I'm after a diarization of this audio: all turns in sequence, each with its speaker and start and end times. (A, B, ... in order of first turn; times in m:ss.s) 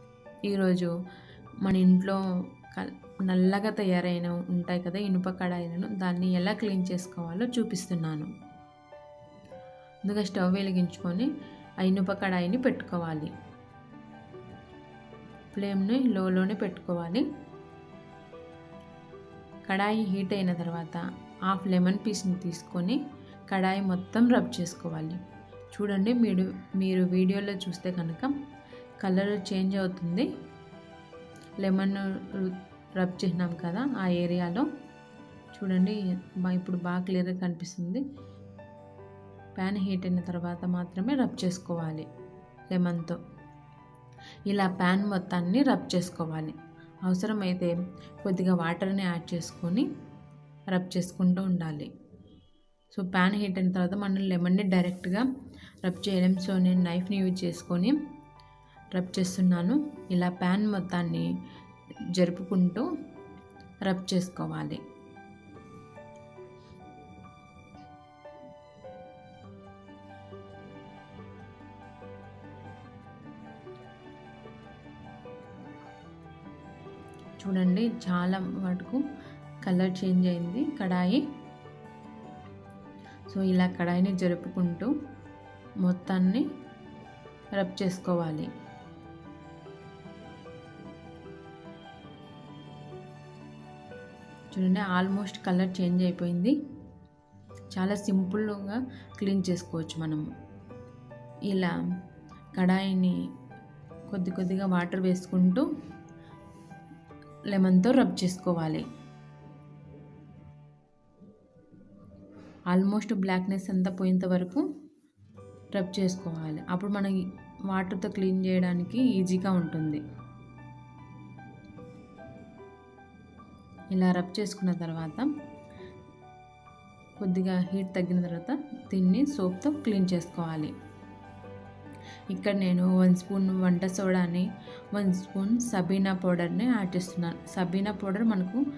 0:00.4-0:00.9 A
0:01.6-0:02.2 A
0:02.7-0:08.3 A
0:10.0-0:11.3 A
0:11.8-0:13.3 A
0:15.5-0:17.2 A
0:19.7-0:25.2 A
0:25.7-0:28.3 A
0:29.0-0:30.3 A
0:31.6-0:34.7 A
0:35.5-0:38.0 A
0:39.5-0:42.0 A
0:42.7-0:43.2 A
0:44.5-0:46.5 A
0:47.0-0:49.9 A
0:50.7-0:51.9 A
0:52.9-0:55.2 A
0:55.8-0:58.0 A
0:58.9-1:01.3 A
1:02.1-1:02.9 A
1:03.8-1:04.8 A
1:17.4-1:19.0 A
1:19.6-1:21.2 A
1:23.3-1:24.9 A
1:25.8-1:26.4 A
1:27.5-1:28.5 A
1:34.5-1:36.6 A
1:37.7-1:40.3 A
1:41.5-1:41.7 A
1:42.5-1:43.2 A
1:44.1-1:45.6 A
1:47.5-1:48.8 A
1:52.7-1:54.6 A
1:55.7-1:57.2 A
1:57.7-2:00.0 A
2:03.9-2:05.3 A
2:07.2-2:10.7 A
2:12.3-2:18.6 A